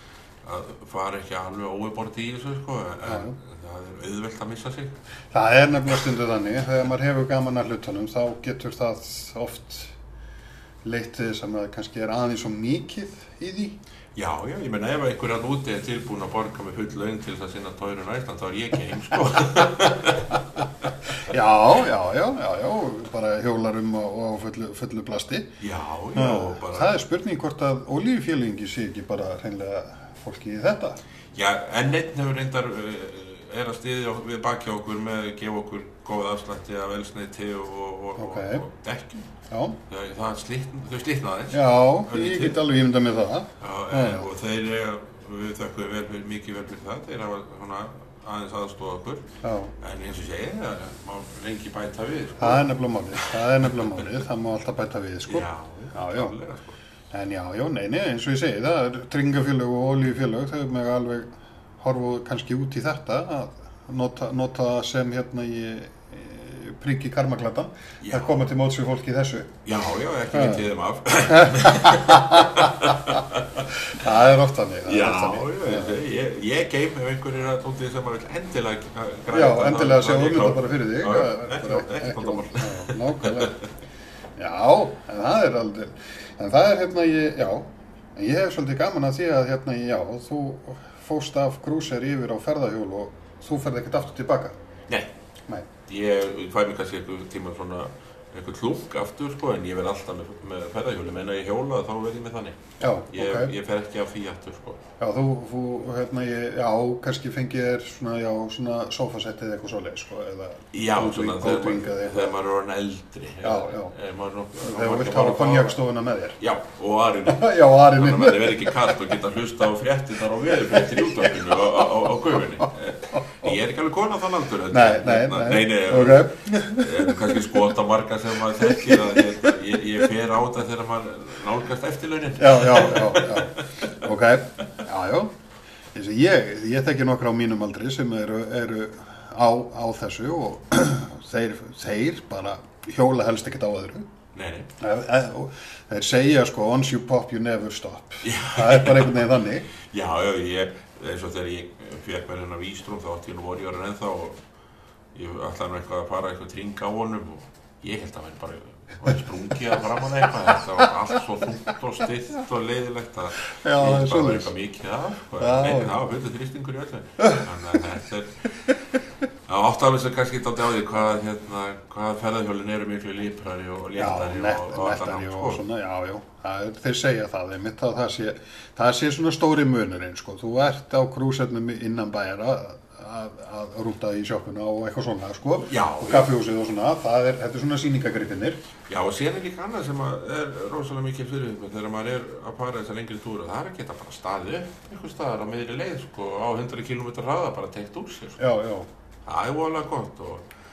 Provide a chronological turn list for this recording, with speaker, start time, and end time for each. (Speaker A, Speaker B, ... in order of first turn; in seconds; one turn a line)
Speaker A: 0.4-5.0
Speaker B: 3.0-3.4
Speaker B: 5.3-9.9
Speaker B: 10.8-13.8
Speaker A: 14.1-20.9
Speaker B: 21.1-25.5
Speaker A: 25.6-27.0
Speaker B: 26.1-31.0
Speaker A: 31.3-39.3
Speaker B: 38.2-38.6
Speaker B: 39.5-39.8
Speaker A: 39.9-42.6
Speaker B: 41.5-44.2
Speaker A: 43.6-49.3
Speaker B: 49.4-49.7
Speaker A: 49.8-54.0
Speaker B: 52.4-56.3
Speaker A: 55.3-56.8
Speaker B: 57.1-61.3
Speaker B: 61.8-69.5
Speaker A: 68.0-68.4
Speaker A: 69.6-73.7
Speaker B: 70.3-70.6
Speaker B: 71.3-73.2
Speaker B: 73.8-76.0
Speaker A: 74.8-83.6
Speaker B: 79.3-83.6
Speaker B: 84.4-94.5
Speaker A: 95.9-102.6
Speaker B: 102.8-103.5
Speaker A: 103.1-104.8
Speaker B: 105.0-112.3
Speaker A: 110.7-115.8
Speaker B: 113.4-113.9
Speaker B: 114.6-116.4
Speaker A: 116.4-133.8
Speaker B: 117.2-119.1
Speaker B: 120.6-121.4
Speaker B: 123.1-123.5
Speaker B: 124.7-127.5
Speaker B: 128.6-129.5
Speaker B: 132.4-135.3
Speaker B: 135.9-144.1
Speaker A: 144.3-144.7
Speaker B: 144.8-149.7
Speaker A: 148.2-154.4
Speaker A: 155.1-168.7
Speaker B: 163.4-164.5
Speaker B: 165.4-166.0
Speaker B: 167.2-167.5
Speaker A: 169.5-175.6
Speaker B: 174.0-188.6
Speaker A: 185.6-186.3
Speaker A: 188.9-198.4
Speaker B: 198.4-198.9
Speaker A: 199.2-200.4